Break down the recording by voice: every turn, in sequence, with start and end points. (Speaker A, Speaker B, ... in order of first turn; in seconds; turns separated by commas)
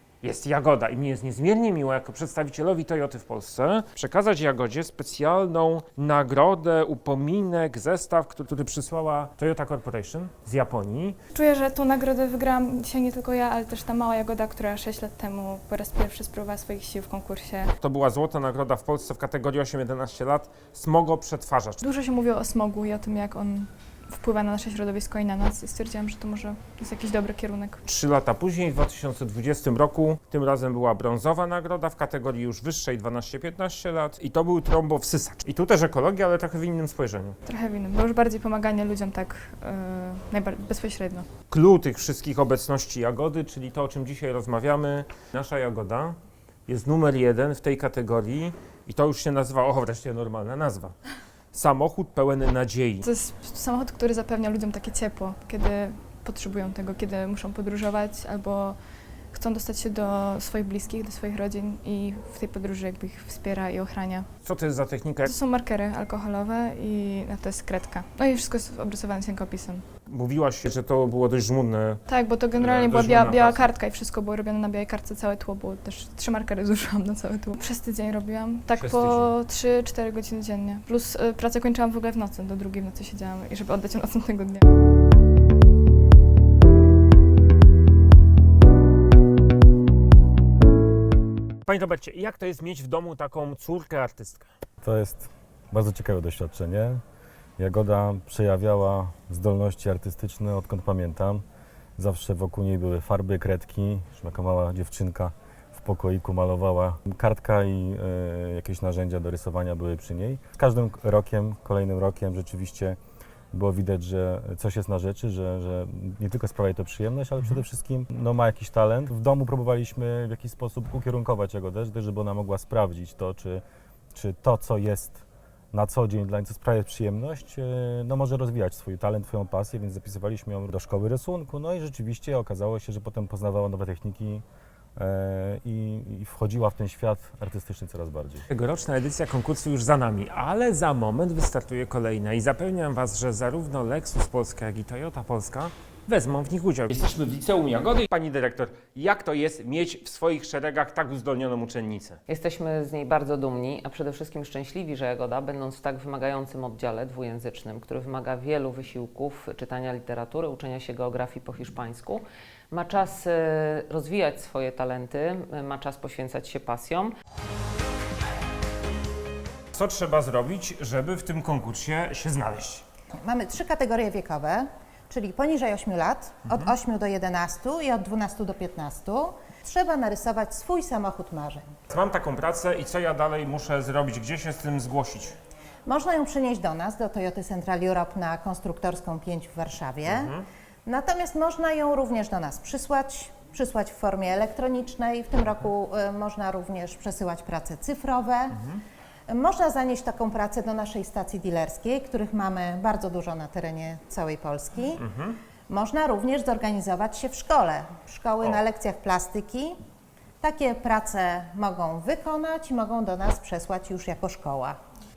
Speaker A: 0.2-11.2, Speaker B: 11.3-17.7, Speaker A: 17.8-21.8, Speaker B: 21.8-27.8, Speaker A: 27.8-37.4, Speaker B: 37.4-41.3, Speaker A: 41.5-50.9, Speaker A: 51.5-53.0, Speaker B: 53.0-58.8, Speaker B: 59.3-64.3, Speaker A: 64.4-65.3, Speaker B: 65.3-69.8, Speaker A: 70.0-72.0, Speaker B: 72.1-84.6, Speaker A: 72.6-73.7, Speaker A: 78.7-79.3, Speaker A: 91.7-94.5, Speaker C: 94.8-97.0, Speaker C: 97.6-101.4, Speaker C: 102.0-113.0, Speaker C: 113.5-123.6, Speaker C: 124.1-134.4, Speaker C: 134.9-138.4, Speaker A: 138.5-152.2, Speaker D: 152.3-167.1, Speaker A: 169.7-172.8, Speaker E: 173.2-181.7, Speaker A: 181.9-185.3, Speaker E: 185.8-198.6, Speaker A: 190.1-190.4, Speaker A: 198.5-198.8, Speaker E: 199.3-205.0, Speaker A: 205.0-205.4, Speaker E: 205.7-209.8, Speaker E: 210.4-214.8